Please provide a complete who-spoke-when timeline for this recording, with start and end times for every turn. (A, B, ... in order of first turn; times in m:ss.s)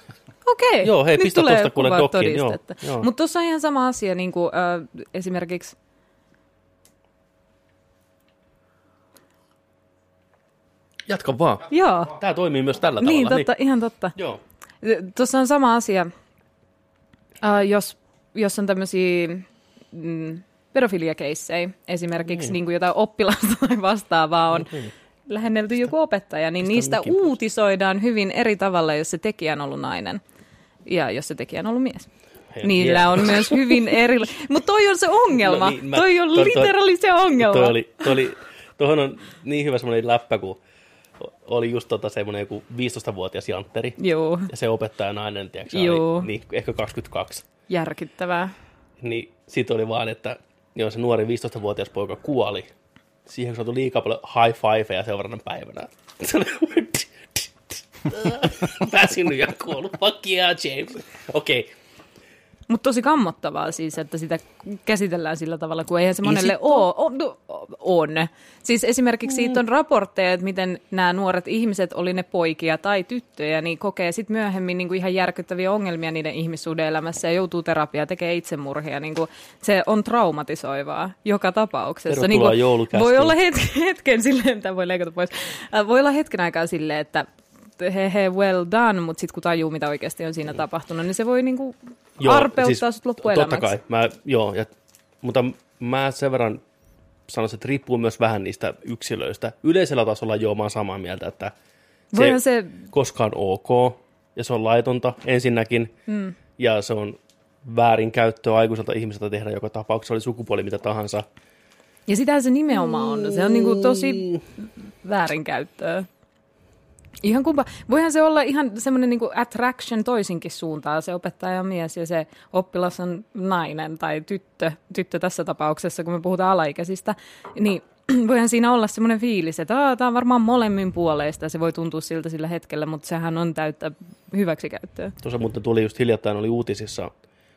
0:00.4-0:05.8 A
0:00.8-0:03.1 B
0:11.1-0:13.5 B
0:11.7-0:12.2 A
0:13.0-0:14.2 A
0:14.8-0:16.1 A
0:17.4-0:30.2 A
0:24.6-0:24.9 B
0:26.6-0:27.4 B
0:30.9-0:32.1 A
0:32.6-0:33.9 B
0:32.6-0:38.1 A
0:35.3-0:36.8 B
0:37.4-0:40.6 B
0:41.2-0:47.5 B
0:44.0-0:44.5 A
0:45.7-0:46.3 A
0:47.7-0:48.5 A
0:49.0-0:52.7 B
0:53.3-1:01.7 B
1:02.7-1:33.7 A
1:06.2-1:06.8 B
1:22.1-1:23.4 B
1:32.2-1:34.7 B
1:35.2-1:36.6 B
1:37.3-1:41.5 B
1:42.1-1:42.8 A
1:42.2-1:45.9 B
1:46.1-1:46.4 A
1:46.6-1:51.3 B
1:52.1-1:56.1 A
1:52.8-1:54.4 B
1:57.2-2:15.2 A
2:15.2-2:17.1 B